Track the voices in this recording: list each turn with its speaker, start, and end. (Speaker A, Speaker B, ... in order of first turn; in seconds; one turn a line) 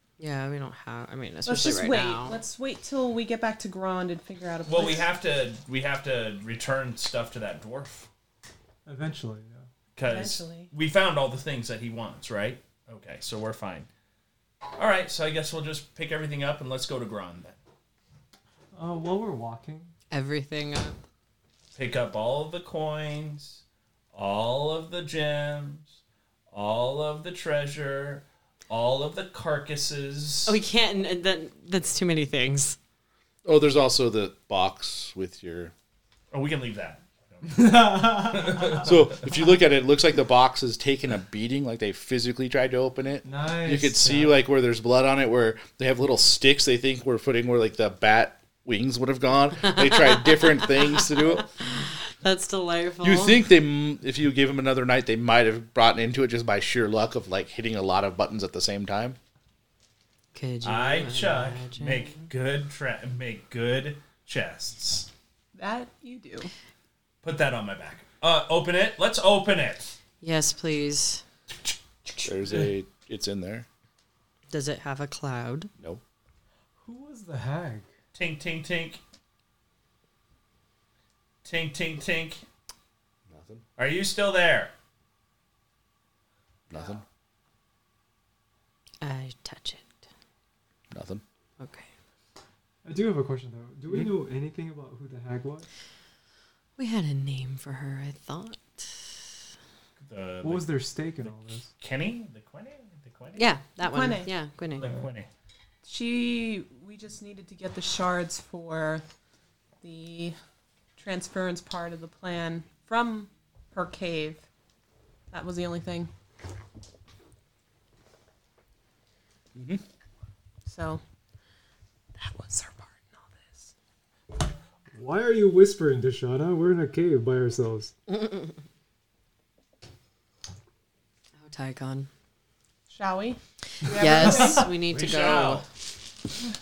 Speaker A: 0.2-2.4
Speaker B: 1.5-5.1
Speaker C: 4.7-8.1
Speaker D: 8.9-9.7
Speaker C: 10.0-13.9
Speaker B: 10.0-10.7
Speaker C: 14.8-17.6
Speaker D: 18.7-19.9
Speaker A: 20.1-21.0
Speaker C: 21.8-23.6
Speaker C: 24.1-26.0
Speaker C: 26.5-30.6
Speaker A: 30.5-32.8
Speaker E: 33.5-35.7
Speaker C: 36.3-39.0
Speaker D: 37.5-38.9
Speaker E: 38.8-51.5
Speaker D: 43.2-44.4
Speaker A: 49.6-53.4
Speaker E: 53.0-59.2
Speaker A: 60.3-62.3
Speaker C: 60.6-65.1
Speaker B: 65.5-66.5
Speaker C: 67.2-69.9
Speaker A: 70.2-71.2
Speaker E: 72.2-73.7
Speaker A: 74.5-75.7
Speaker D: 76.8-77.9
Speaker C: 78.1-79.0
Speaker C: 81.5-82.4
Speaker E: 83.3-83.6
Speaker C: 83.8-84.7
Speaker E: 86.7-87.0
Speaker A: 89.0-90.0
Speaker E: 90.9-91.2
Speaker A: 91.6-91.9
Speaker D: 92.8-95.7
Speaker A: 96.8-99.1
Speaker C: 100.0-103.5
Speaker D: 100.4-101.7
Speaker A: 103.4-105.0
Speaker B: 103.8-104.3
Speaker C: 104.8-105.3
Speaker B: 105.8-109.0
Speaker B: 109.8-110.4
Speaker B: 111.0-114.4
Speaker B: 115.3-116.1
Speaker E: 119.5-119.8
Speaker B: 120.7-121.0
Speaker B: 122.2-123.7
Speaker D: 125.0-127.9
Speaker A: 128.2-128.5
Speaker A: 131.4-132.1
Speaker B: 132.9-134.7
Speaker A: 133.9-135.7
Speaker D: 133.9-134.5
Speaker C: 134.7-135.7